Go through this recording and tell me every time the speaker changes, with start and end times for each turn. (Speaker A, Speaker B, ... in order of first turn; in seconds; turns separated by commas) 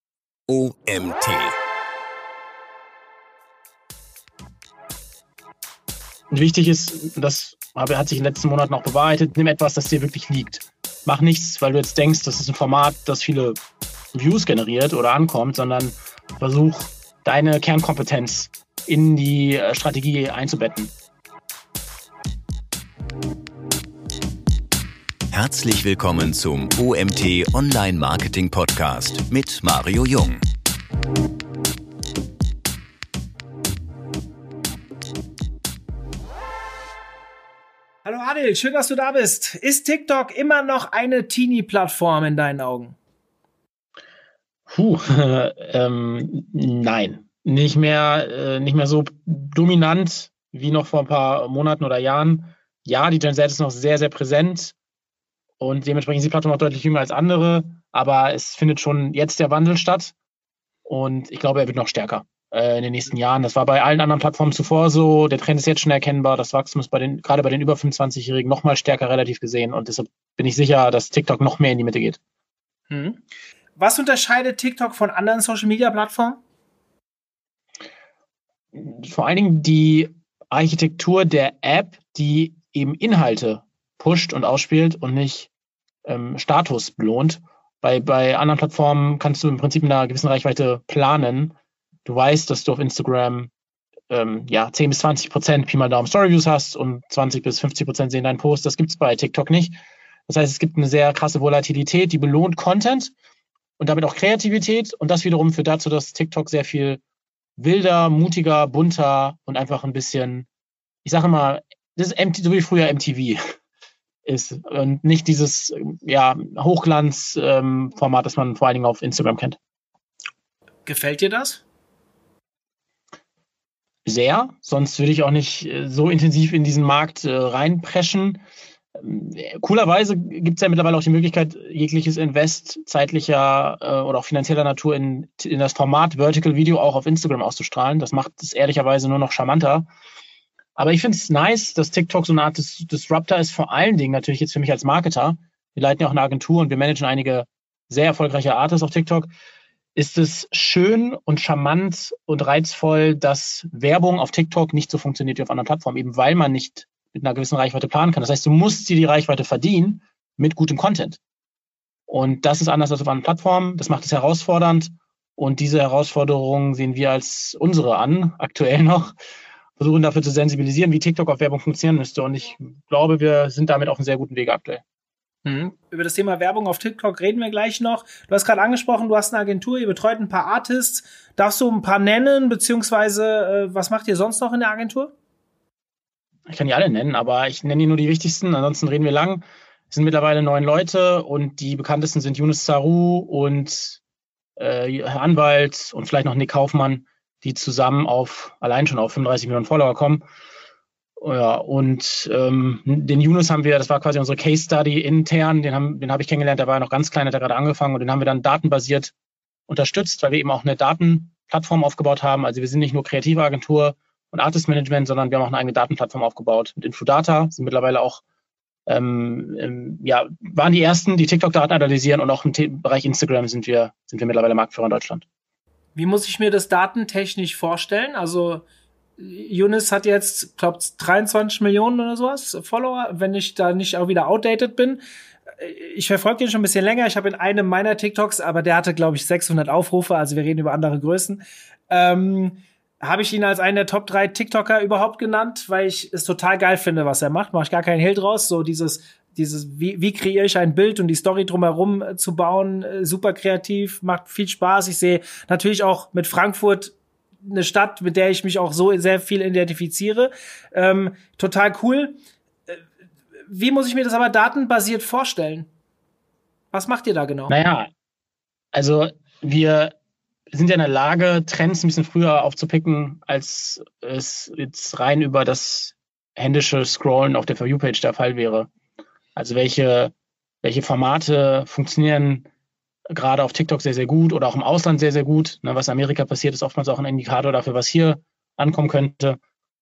Speaker A: 0.5-1.5, Speaker B: 6.3-13.6, Speaker B: 14.1-20.9, Speaker A: 25.3-30.4, Speaker C: 38.0-43.0, Speaker B: 44.7-54.7, Speaker B: 55.6-60.1, Speaker B: 60.9-72.2, Speaker C: 72.9-73.2, Speaker C: 73.8-76.4, Speaker B: 78.7-85.5, Speaker B: 86.0-91.5, Speaker B: 92.0-93.5, Speaker B: 94.1-99.8, Speaker B: 100.3-103.1, Speaker B: 103.8-107.0, Speaker B: 107.6-110.5, Speaker B: 111.0-113.4, Speaker B: 114.2-119.6, Speaker C: 120.8-121.6, Speaker B: 124.1-128.4, Speaker B: 128.9-139.9, Speaker B: 140.8-149.3, Speaker B: 149.9-161.2, Speaker B: 162.1-169.1, Speaker B: 169.8-174.8, Speaker C: 175.4-185.1, Speaker B: 186.5-194.0, Speaker B: 194.6-200.2, Speaker B: 201.2-209.1, Speaker B: 209.7-218.2, Speaker B: 218.9-225.2, Speaker C: 225.9-228.6, Speaker C: 229.2-235.0, Speaker C: 235.6-262.2, Speaker C: 263.5-265.7, Speaker C: 266.7-267.5, Speaker B: 267.5-267.9, Speaker B: 268.7-269.9, Speaker B: 270.5-278.7, Speaker B: 279.4-282.5, Speaker B: 283.1-289.4